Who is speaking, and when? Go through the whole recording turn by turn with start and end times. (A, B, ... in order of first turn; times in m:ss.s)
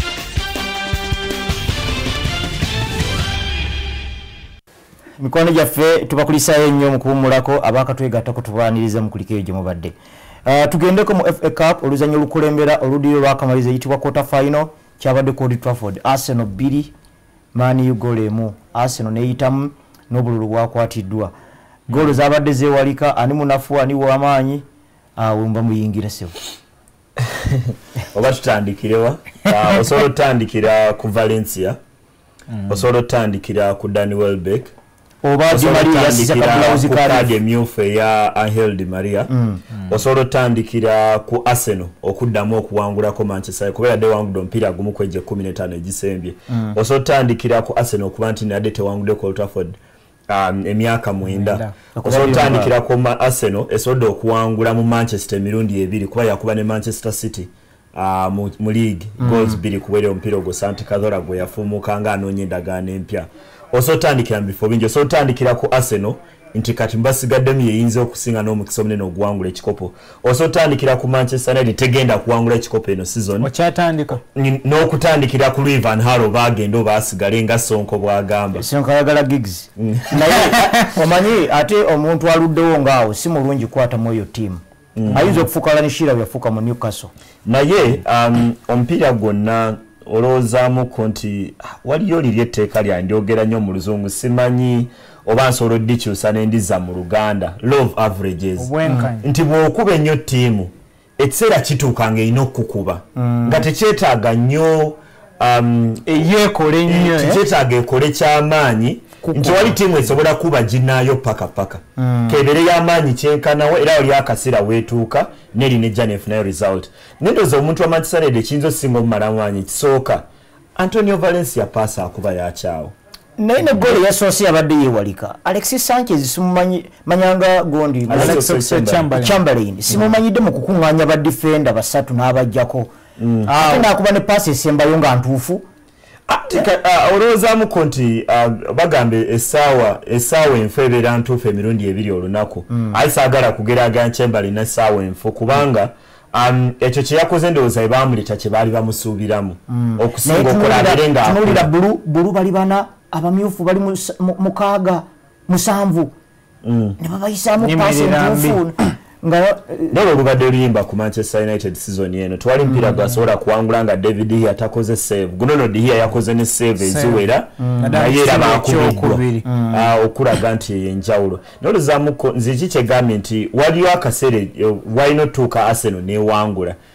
0:05.2-0:16.9 A
0:17.5-0:21.3 A
0:21.9-0:24.6 A
0:25.2-0:26.3 A
0:27.2-0:31.8 B
0:32.5-0:32.8 C
0:32.7-0:34.7 B
0:35.2-0:37.4 A
0:35.5-0:39.3 B
0:39.3-0:39.6 A
0:39.9-0:49.8 B
0:46.5-0:46.8 A
0:50.3-1:13.5 B
0:51.2-0:51.7 C
0:52.0-0:52.7 A
0:59.2-0:59.6 A
1:13.4-1:14.2 C
1:14.2-1:18.6 B
1:18.5-1:27.1 A
1:19.8-1:20.6 B
1:25.0-1:25.4 B
1:27.4-1:46.1 B
1:38.6-1:39.3 C
1:43.2-1:43.6 A
1:46.1-1:47.4 C
1:46.8-2:02.9 B
1:49.3-1:49.8 A
1:52.0-1:52.4 A
2:03.4-2:12.9 A
2:08.1-2:09.1 B
2:08.1-2:09.4 C
2:13.2-2:13.9 B
2:13.4-2:15.7 A
2:16.3-2:31.7 B
2:22.7-2:23.0 A
2:29.7-2:36.2 A
2:36.6-2:37.0 B
2:37.0-2:40.0 A
2:37.6-2:38.6 C
2:39.9-2:56.8 B
2:46.8-2:49.5 C
2:47.6-2:48.0 A
2:49.4-2:49.9 A